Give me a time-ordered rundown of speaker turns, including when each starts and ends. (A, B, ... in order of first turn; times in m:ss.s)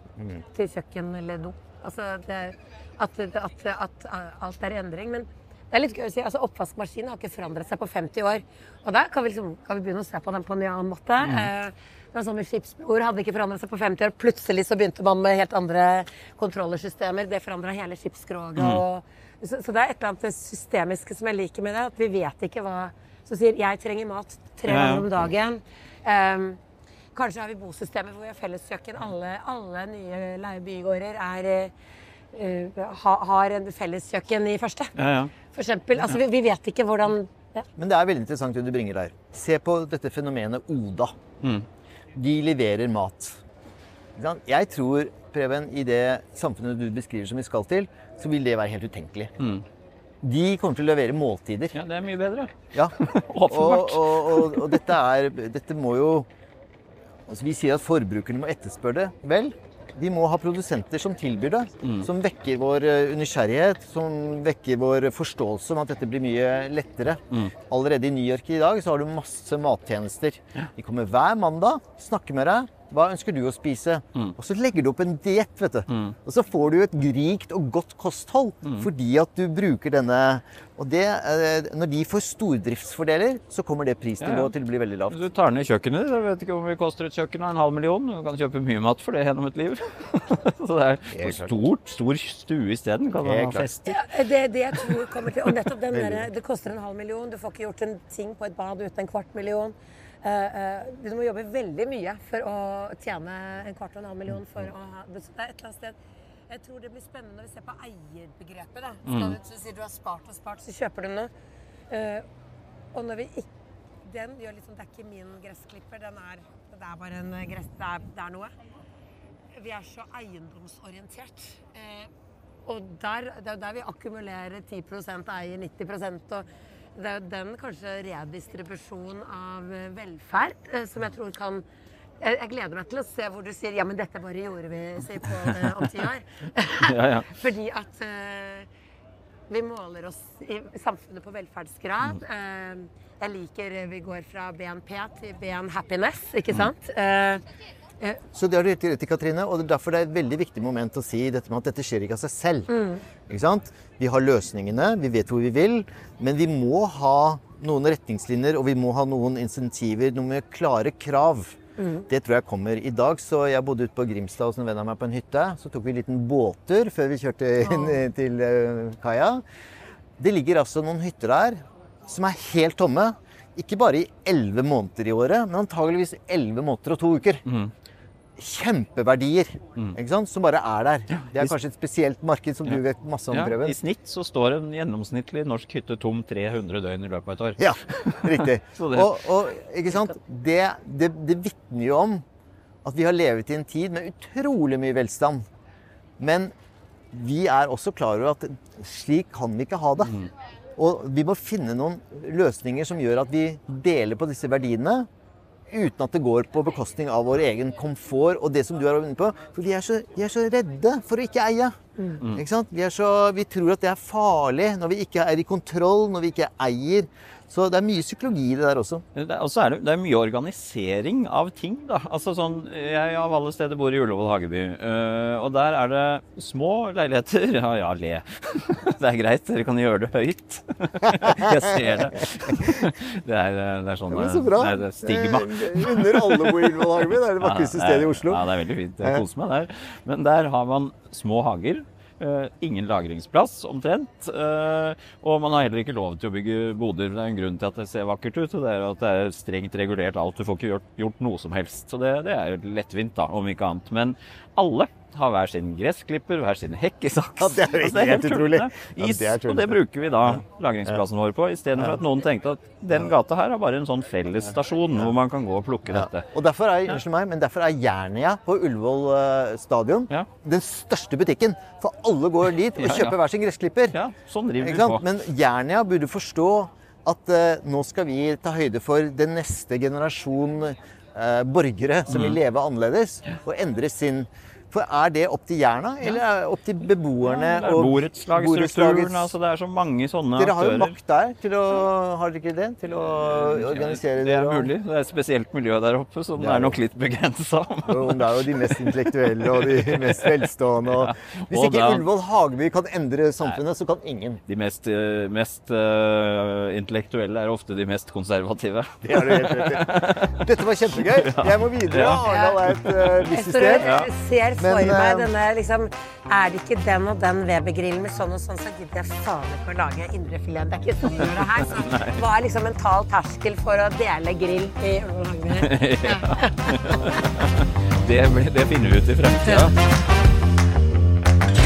0:00.4-0:26.6 A
0:11.2-0:11.5 B
0:18.6-0:18.8 B
0:24.7-0:25.1 B
0:27.1-0:31.7 A
0:32.3-0:37.6 A
0:35.0-0:35.3 B
0:37.8-0:41.1 C
0:42.1-0:43.4 C
0:44.2-0:49.3 C
0:50.2-0:51.8 C
0:51.7-0:54.8 B
0:52.7-0:56.3 C
0:57.3-1:25.2 C
1:15.9-1:16.1 B
1:24.2-1:24.5 B
1:25.1-1:34.0 B
1:31.1-1:31.5 C
1:33.2-1:33.8 C
1:33.8-1:46.0 A
1:35.9-1:36.3 C
1:46.5-1:51.3 A
1:49.0-1:49.4 B
1:51.9-1:52.2 A
1:52.9-1:53.5 A
1:54.0-1:58.5 A
1:59.5-2:02.1 A
2:02.6-2:11.6 A
2:12.2-2:18.7 A
2:16.8-2:17.3 B
2:19.5-2:27.4 A
2:28.3-2:32.7 C
2:32.7-2:33.0 A
2:33.3-2:41.6 C
2:41.8-2:42.0 A
2:42.1-2:49.4 C
2:47.6-2:48.0 A
2:50.2-2:57.4 C
2:57.4-2:57.7 B
2:58.4-3:03.8 C
3:01.1-3:01.5 B
3:03.3-3:09.1 B
3:07.6-3:12.2 C
3:12.8-3:15.4 C
3:16.2-3:16.5 C
3:17.1-3:20.2 C
3:20.0-3:20.3 B
3:20.8-3:25.1 C
3:25.7-3:31.8 C
3:32.3-3:39.0 C
3:39.1-4:26.3 B
3:54.1-3:58.4 C
4:17.4-4:21.0 C
4:25.9-4:34.0 C
4:32.8-4:33.2 B
4:33.9-4:35.0 B
4:34.6-4:49.3 C
4:42.1-4:42.4 B
4:47.2-4:50.9 B
4:50.4-4:54.7 C
4:53.0-5:02.0 B
4:56.4-4:56.8 C
4:57.8-5:04.4 C
5:04.5-5:13.3 B
5:09.0-5:13.9 C
5:13.3-5:27.1 A
5:13.8-5:14.1 B
5:14.6-5:15.3 C
5:21.2-5:22.2 B
5:25.5-5:29.8 B